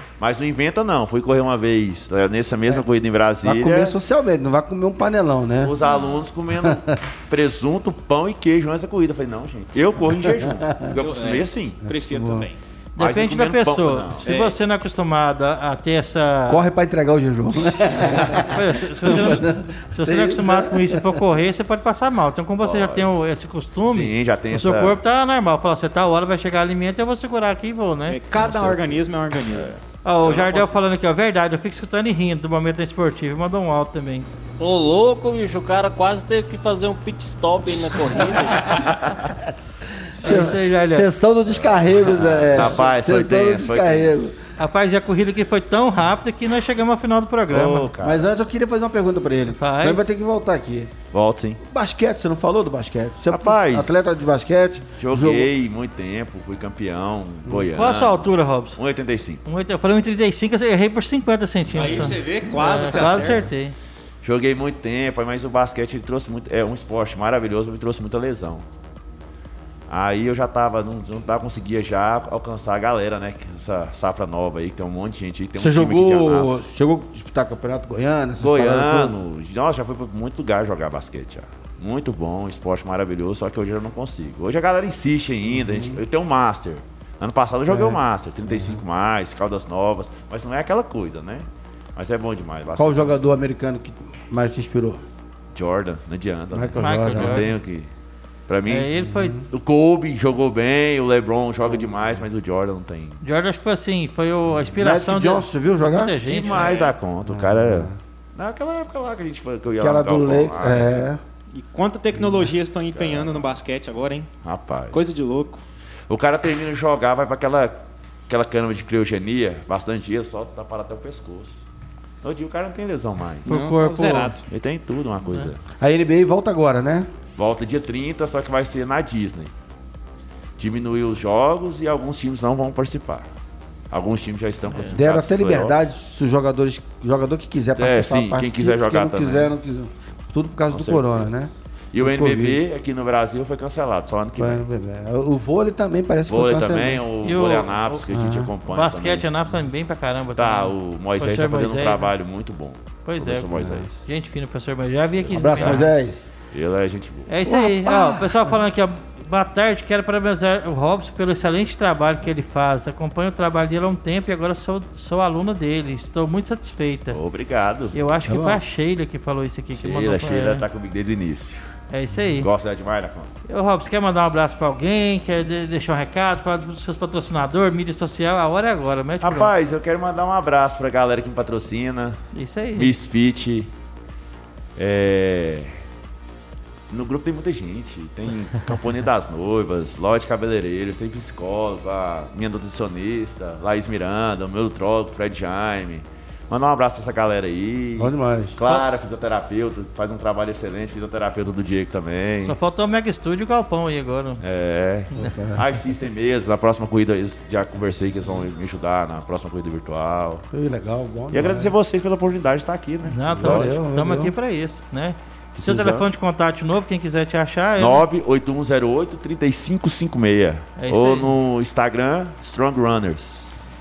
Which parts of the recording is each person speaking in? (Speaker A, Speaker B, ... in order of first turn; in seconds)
Speaker A: 0.2-4.0, 5.6-11.9, 13.0-14.3, 22.6-23.1, 23.9-25.0, 28.4-29.0, 29.5-30.7, 38.9-39.3, 41.5-44.3, 47.5-48.2, 51.1-51.6, 53.3-54.1, 55.0-59.4, 64.2-68.6, 69.9-76.6, 78.4-93.4, 95.5-97.9, 98.5-98.9, 99.5-103.2, 106.2-111.0, 112.9-113.5, 114.4-115.0, 116.1-117.8, 118.3-121.6, 122.2-123.5, 124.5-125.6, 127.4-129.5, 130.6-133.2, 133.9-135.9, 137.8-139.5, 140.7-141.3, 141.9-144.6, 146.3-149.3, 150.3-154.0, 155.3-155.8, 156.5-157.3, 167.1-168.0, 169.8-171.7, 172.4-173.3, 179.2-182.2, 182.8-183.7, 184.8-185.8, 186.9-202.6, 204.4-210.4, 211.3-213.8, 215.5-216.1, 217.8-223.5
Speaker B: 3.4-5.8, 6.5-7.0, 10.2-10.9, 12.0-12.5, 16.5-21.2, 40.2-44.4, 48.0-50.9, 51.6-55.5, 57.5-57.8, 75.6-79.1, 85.5-86.0, 87.7-88.8, 92.8-95.0, 96.5-97.5, 99.0-99.5, 101.6-102.2, 104.8-106.2, 107.2-108.0, 109.8-111.2, 112.2-112.5, 125.8-127.1, 134.9-142.6, 144.4-147.0, 148.1-148.5, 153.5-153.8, 155.3-156.2, 157.4-158.5, 168.2-168.6, 172.1-172.4, 198.0-198.6, 205.1-205.7, 210.5-211.7, 213.3-214.3
Speaker C: 11.0-12.6, 14.2-14.6, 28.1-29.7, 61.7-63.5, 106.5-106.9, 111.5-114.3, 114.9-115.6, 123.4-124.5
Speaker D: 12.9-16.6, 18.4-28.2, 30.0-34.3, 40.2-41.1, 44.6-47.9, 49.5-50.0, 57.7-58.8, 59.5-63.7, 96.8-97.5, 98.7-99.3, 103.2-106.8, 123.5-124.4, 147.2-148.0, 148.7-152.1, 153.0-155.9, 157.3-167.2, 167.9-170.7, 171.9-172.5, 173.5-179.5, 182.3-182.9, 202.4-204.4, 213.1-218.0, 220.8-221.3
Speaker E: 34.6-38.9